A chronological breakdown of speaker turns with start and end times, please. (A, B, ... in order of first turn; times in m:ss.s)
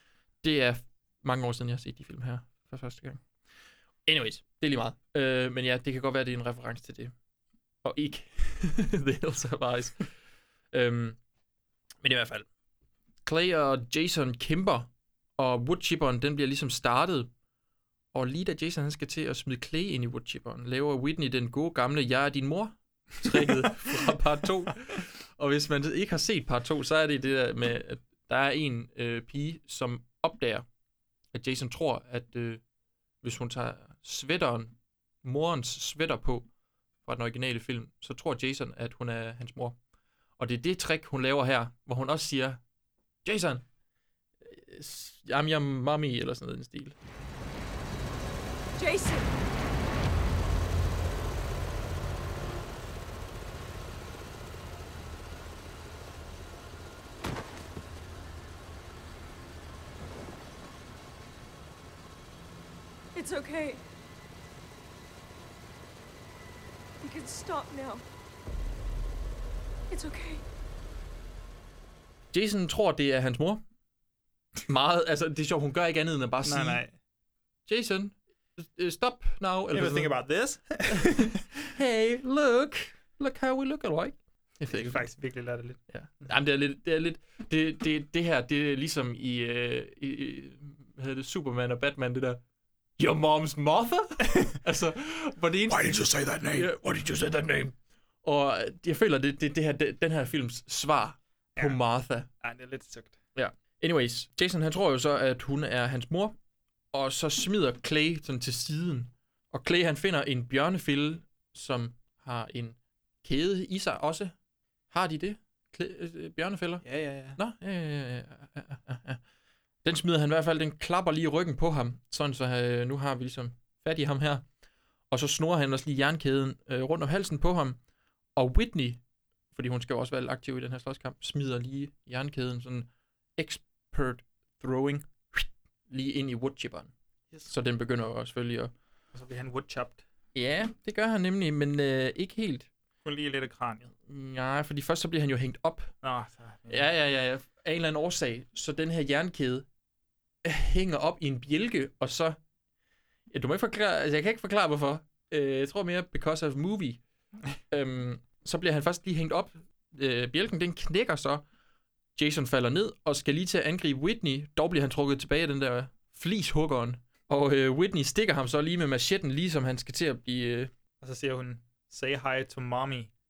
0:00.4-0:03.2 A
0:04.1-0:07.1 A
0:07.8-0:10.1 A
0:10.7-0:11.2 A
0:12.0-0:12.5 A
0:13.2-0:17.3 A
0:18.1-0:30.6 A
0:31.3-0:32.6 A
0:33.2-0:36.5 A
0:37.0-0:39.8 A
0:40.4-0:42.6 A
0:43.2-0:43.6 A
0:44.4-0:47.0 A
0:48.8-0:49.3 B
1:03.2-1:03.8 B
1:07.0-1:08.0 B
1:09.9-1:10.4 B
1:12.3-1:13.6 A
1:14.7-1:16.8 A
1:16.4-1:16.9 C
1:17.7-1:20.2 A
1:19.7-1:21.4 C
1:20.9-1:25.1 A
1:24.7-1:25.8 C
1:25.9-1:32.4 A
1:33.0-1:42.3 A
1:35.7-1:36.7 C
1:42.4-1:43.2 C
1:43.4-1:46.4 A
1:46.9-1:54.3 A
1:54.9-1:59.2 A
1:56.8-1:57.4 C
1:59.8-2:04.5 A
2:05.1-2:07.8 A
2:08.4-2:09.0 A
2:09.5-2:16.9 A
2:17.5-2:18.7 A
2:19.1-2:20.0 C
2:20.4-2:22.7 A
2:23.0-2:23.9 C
2:24.1-2:25.9 A
2:26.0-2:26.8 C
2:26.7-2:29.7 A
2:30.4-2:32.4 A
2:33.3-2:37.0 A
2:37.7-2:41.4 A
2:42.2-2:50.7 A
2:51.0-2:53.1 C